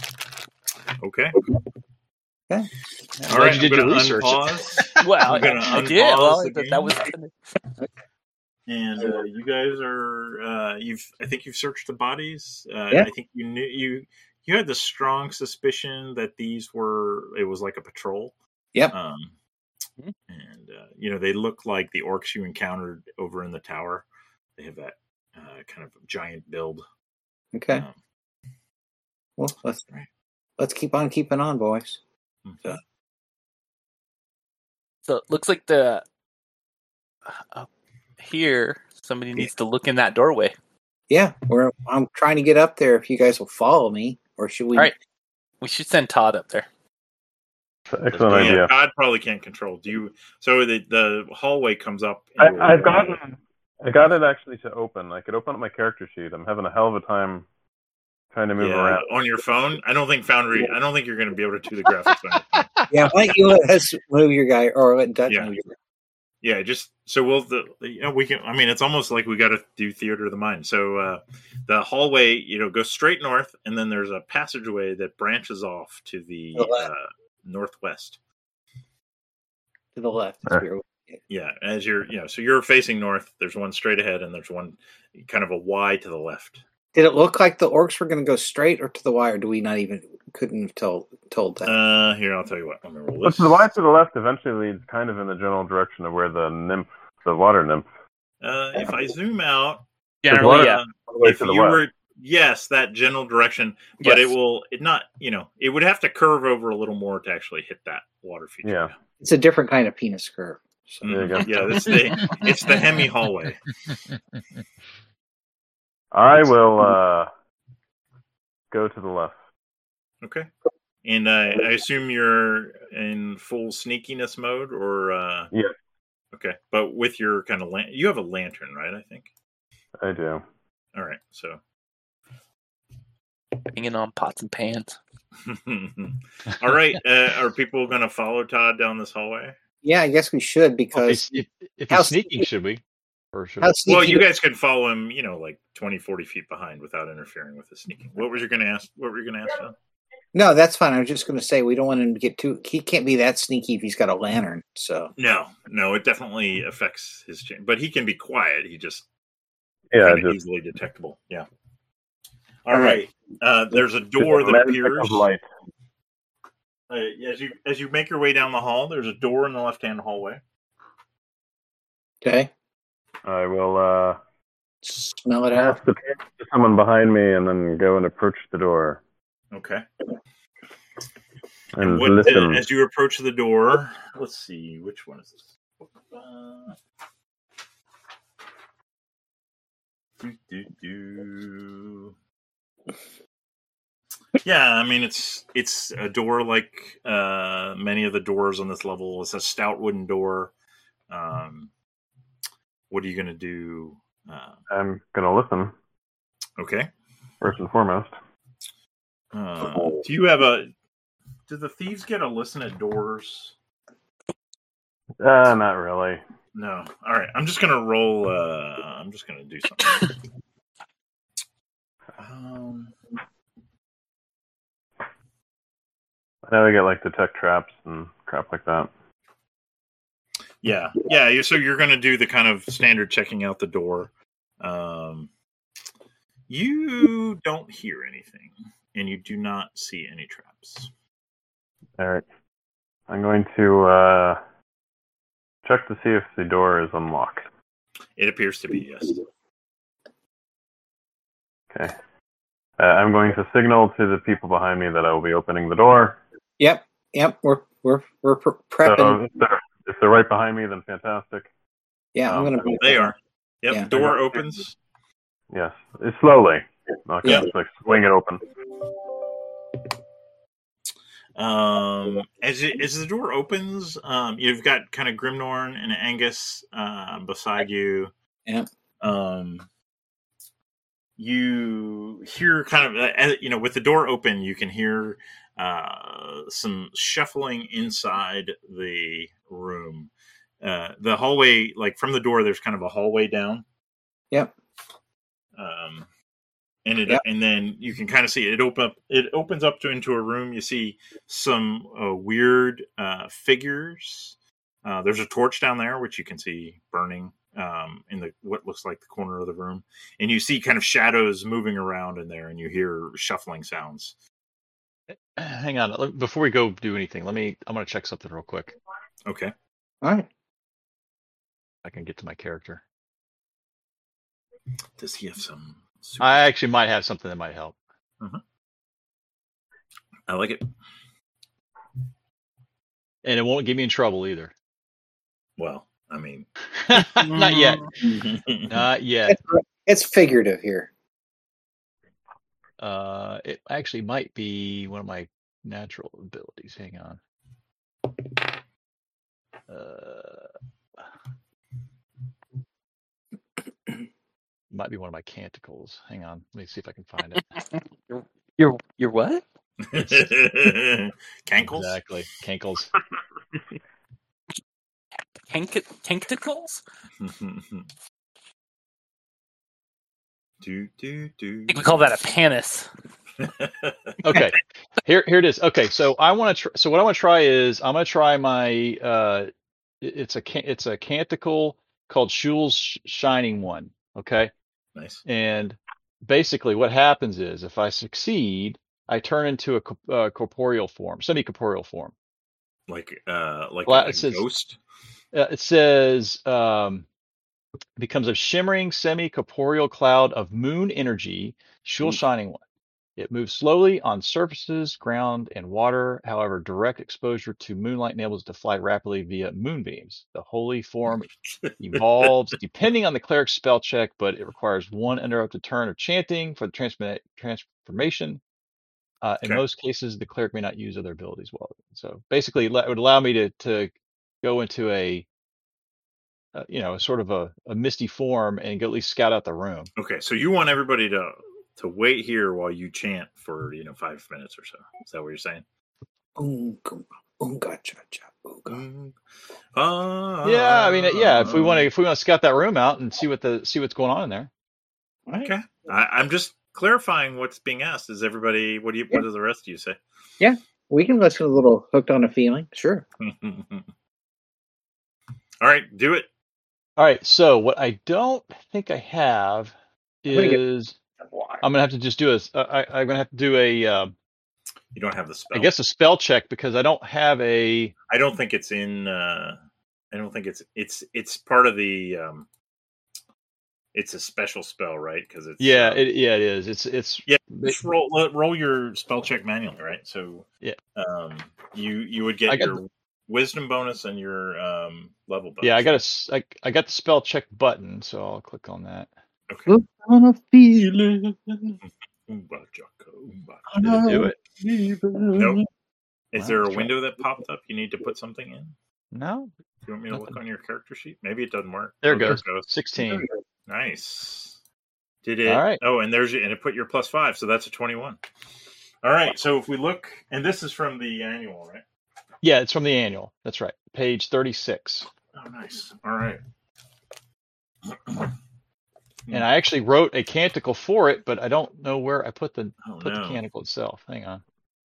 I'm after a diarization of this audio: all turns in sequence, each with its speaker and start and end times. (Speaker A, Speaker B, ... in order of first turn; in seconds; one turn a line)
Speaker A: 1.0-1.4
Speaker B: 3.2-5.0
Speaker A: 3.3-7.0
Speaker C: 5.0-7.3
Speaker A: 8.7-18.3
Speaker A: 18.9-19.3
Speaker A: 20.3-24.1
Speaker A: 24.6-26.8
Speaker D: 27.5-27.9
Speaker D: 29.4-29.9
Speaker D: 30.6-32.0
Speaker A: 32.4-32.8
Speaker C: 35.0-36.0
Speaker C: 37.3-37.7
Speaker C: 38.2-40.5
Speaker D: 41.1-44.9
Speaker C: 45.6-46.7
Speaker E: 47.9-48.7
Speaker A: 48.3-53.2
Speaker E: 52.4-57.5
Speaker E: 58.3-59.0
Speaker A: 58.6-62.6
Speaker B: 62.5-62.8
Speaker D: 62.9-65.7
Speaker A: 66.4-78.2
Speaker D: 76.5-76.9
Speaker D: 80.0-81.2
Speaker A: 81.3-86.6
Speaker D: 86.9-91.7
Speaker A: 91.6-93.7
Speaker E: 93.2-97.9
Speaker A: 98.4-108.9
Speaker C: 100.2-100.8
Speaker E: 100.3-101.8
Speaker C: 104.0-104.3
Speaker E: 108.6-108.9
Speaker D: 109.2-111.3
Speaker A: 111.0-113.7
Speaker E: 111.0-111.9
Speaker E: 116.1-117.3
Speaker E: 118.7-119.3
Speaker A: 120.2-120.5
Speaker A: 121.0-125.5
Speaker A: 126.3-129.3
Speaker E: 130.0-130.4
Speaker A: 130.9-131.6
Speaker C: 133.7-135.0
Speaker A: 135.4-139.6
Speaker D: 139.8-141.3
Speaker B: 140.9-142.8
Speaker D: 141.9-142.4
Speaker B: 143.3-143.8
Speaker D: 143.6-144.2
Speaker A: 143.8-149.7
Speaker D: 150.3-155.1
Speaker A: 155.2-159.1
Speaker E: 159.9-160.3
Speaker A: 160.0-161.5
Speaker A: 162.7-165.2
Speaker D: 162.7-163.0
Speaker E: 164.2-165.4
Speaker A: 166.9-170.4
Speaker D: 172.2-172.5
Speaker E: 173.2-174.2
Speaker D: 174.8-175.8
Speaker E: 175.6-179.0
Speaker A: 179.5-179.8
Speaker E: 181.7-182.6
Speaker A: 181.8-186.8
Speaker A: 190.2-192.1
Speaker A: 194.4-200.5
Speaker A: 201.1-201.7
Speaker A: 202.9-204.6
Speaker E: 204.7-205.7
Speaker A: 206.6-206.9
Speaker E: 207.4-208.1
Speaker A: 209.3-210.7
Speaker E: 209.7-210.0
Speaker A: 211.5-213.5
Speaker E: 215.2-216.2
Speaker A: 216.5-220.1
Speaker A: 222.2-222.9
Speaker E: 226.4-228.9
Speaker A: 230.6-235.3
Speaker A: 236.5-240.9
Speaker E: 242.0-242.2
Speaker E: 243.1-244.4
Speaker E: 245.6-247.4
Speaker A: 248.2-249.2
Speaker E: 252.8-256.2
Speaker D: 256.6-259.2
Speaker E: 258.8-261.5
Speaker D: 262.1-263.1
Speaker A: 262.8-264.8
Speaker E: 265.5-268.4
Speaker A: 271.4-278.1
Speaker A: 279.0-279.7
Speaker A: 281.2-290.1
Speaker A: 290.6-293.6
Speaker A: 295.6-296.1
Speaker A: 296.8-314.1
Speaker B: 315.1-318.8
Speaker A: 319.2-319.5
Speaker D: 320.0-320.3
Speaker B: 321.8-322.8
Speaker A: 325.0-326.5
Speaker B: 326.2-327.8
Speaker A: 330.3-330.6
Speaker B: 333.2-334.5
Speaker A: 335.6-336.5
Speaker B: 336.8-337.9
Speaker C: 337.1-337.9
Speaker A: 338.0-338.9
Speaker B: 338.7-339.4
Speaker D: 339.3-340.9
Speaker B: 342.8-347.2
Speaker B: 349.7-350.5
Speaker B: 354.7-357.4
Speaker C: 358.1-359.4
Speaker A: 359.9-362.0
Speaker B: 361.6-362.9
Speaker C: 365.5-366.8
Speaker A: 367.2-367.9
Speaker A: 370.6-372.0
Speaker C: 371.7-372.9
Speaker A: 373.4-374.1
Speaker B: 374.2-379.5
Speaker B: 380.0-384.5
Speaker A: 384.9-385.2
Speaker B: 385.2-392.1
Speaker A: 392.9-394.8
Speaker B: 393.9-394.4
Speaker B: 395.3-397.1
Speaker B: 398.0-402.6
Speaker B: 403.2-418.4
Speaker A: 411.6-412.0
Speaker B: 419.2-425.2
Speaker B: 426.5-429.9
Speaker A: 430.0-435.6
Speaker D: 436.4-438.8
Speaker A: 438.7-439.1
Speaker A: 439.7-441.9
Speaker B: 440.4-444.5
Speaker D: 445.3-445.5
Speaker A: 445.4-450.0
Speaker D: 450.4-453.0
Speaker A: 453.2-453.9
Speaker A: 455.6-456.3
Speaker B: 457.0-460.9
Speaker D: 460.3-460.6
Speaker D: 461.2-461.6
Speaker B: 461.6-464.1
Speaker A: 464.9-465.7
Speaker B: 465.5-467.9
Speaker A: 468.1-469.6
Speaker A: 470.1-472.5
Speaker A: 473.9-476.0
Speaker B: 475.6-477.8
Speaker A: 477.3-486.0
Speaker B: 482.5-482.9
Speaker B: 485.6-489.1
Speaker A: 489.5-489.7
Speaker D: 489.7-491.8
Speaker A: 492.3-494.1
Speaker D: 493.7-495.6
Speaker B: 493.9-494.4
Speaker A: 495.3-495.6
Speaker A: 496.3-498.7
Speaker B: 496.4-496.9
Speaker B: 499.1-499.5
Speaker A: 499.8-502.7
Speaker B: 500.1-500.4
Speaker B: 502.0-503.3
Speaker A: 503.7-504.6
Speaker A: 505.2-508.2
Speaker B: 505.4-505.8
Speaker A: 509.0-511.8
Speaker B: 512.4-515.1
Speaker A: 515.3-516.4
Speaker A: 518.0-518.3
Speaker B: 519.3-524.4
Speaker A: 522.8-523.4